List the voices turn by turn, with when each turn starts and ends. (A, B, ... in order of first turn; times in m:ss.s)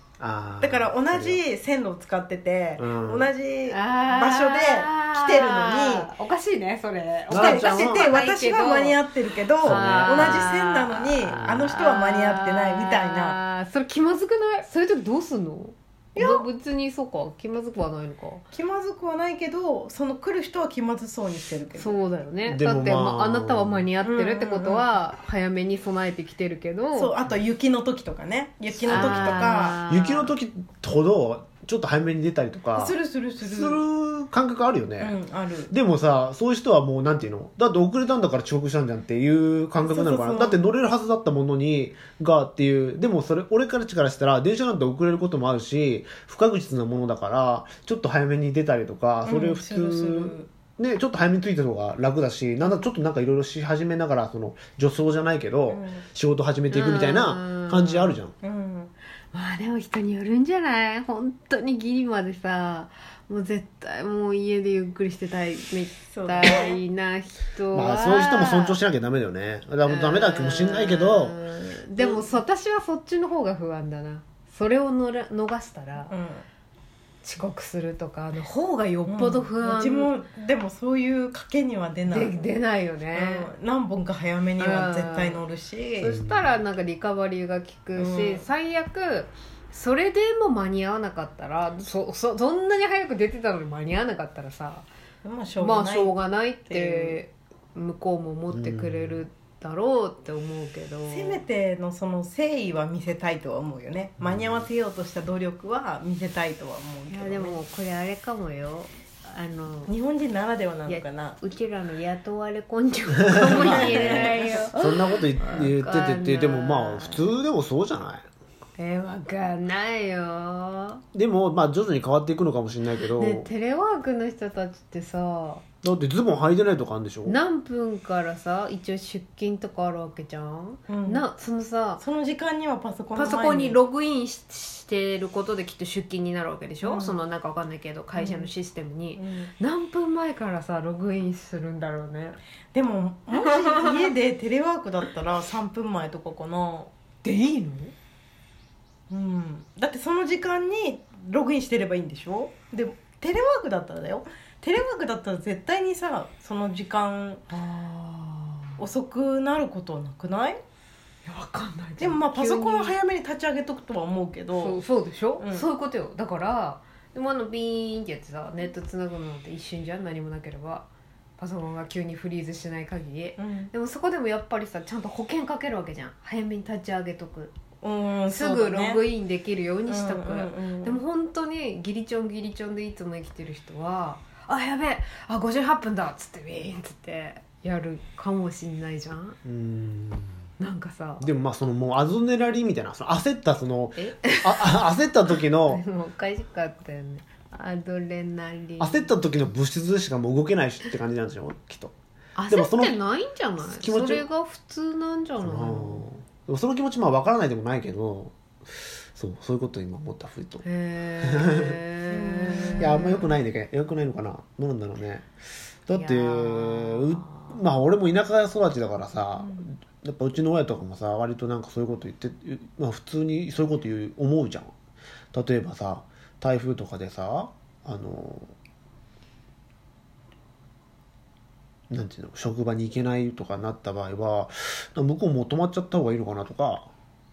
0:00.2-0:01.4 A
0:00.6-0:06.1 B
0:02.8-0:03.3 A
0:03.7-0:09.0 C
0:07.3-0:08.1 A
0:07.3-0:13.4 B
0:09.6-0:18.4 C
0:09.6-0:10.5 A
0:11.3-0:11.7 A
0:16.1-0:16.5 B
0:18.5-0:22.0 B
0:21.8-0:27.1 C
0:22.4-0:23.8 A
0:24.0-0:24.9 B
0:26.9-0:29.8 B
0:28.8-0:35.1 A
0:28.9-0:30.3 C
0:32.8-0:33.8 B
0:35.0-0:35.7 B
0:35.7-0:58.3 A
0:39.8-0:40.6 B
0:49.2-0:50.5 B
0:55.7-0:56.0 B
0:56.7-0:58.2 C
0:58.4-0:58.9 B
0:59.3-1:08.8 C
1:06.1-1:06.8 B
1:07.7-1:11.4 A
1:09.8-1:16.1 C
1:12.0-1:12.3 B
1:16.1-1:16.4 B
1:17.2-1:20.1 C
1:19.1-1:22.4 B
1:22.1-1:23.5 C
1:23.1-1:26.2 B
1:24.6-1:25.4 C
1:26.0-1:34.9 C
1:26.1-1:26.6 A
1:27.9-1:28.5 B
1:35.2-1:36.1 B
1:35.6-1:41.4 C
1:36.7-1:37.2 B
1:38.5-1:39.2 A
1:41.1-1:47.6 B
1:44.2-1:44.6 A
1:47.1-1:49.9 C
1:49.9-1:51.4 B
1:50.9-1:57.3 C
1:53.3-1:58.2 A
1:53.5-1:54.6 B
1:58.8-2:01.0 C
2:01.1-2:03.5 A
2:03.2-2:05.6 C
2:05.8-2:07.4 A
2:07.2-2:12.0 C
2:10.9-2:11.2 B
2:12.0-2:13.8 B
2:13.1-2:22.4 C
2:16.8-2:17.2 B
2:18.1-2:18.5 B
2:19.2-2:19.5 B
2:22.7-2:26.9 B
2:23.4-2:24.0 C
2:27.2-2:27.9 C
2:29.1-2:37.4 B
2:37.5-2:38.8 C
2:38.8-2:40.6 B
2:41.2-2:42.9 C
2:42.0-2:44.8 B
2:44.5-2:50.9 C
2:45.4-2:45.7 B
2:51.4-2:57.5 C
2:53.4-2:53.7 B
2:57.8-2:59.0 B
2:58.3-3:09.4 C
2:59.9-3:01.0 B
3:09.4-3:10.4 A
3:10.6-3:11.3 C
3:11.2-3:15.8 A
3:14.0-3:19.1 C
3:18.8-3:21.9 A
3:22.4-3:26.1 C
3:22.5-3:23.0 A
3:23.6-3:24.2 A
3:25.4-3:30.6 A
3:30.6-3:33.3 C
3:31.2-3:31.8 A
3:32.1-3:33.1 B
3:32.8-3:35.3 A
3:35.9-3:44.7 A
3:35.9-3:37.6 C
3:39.4-3:39.7 B
3:45.3-3:48.5 A
3:51.9-3:56.9 A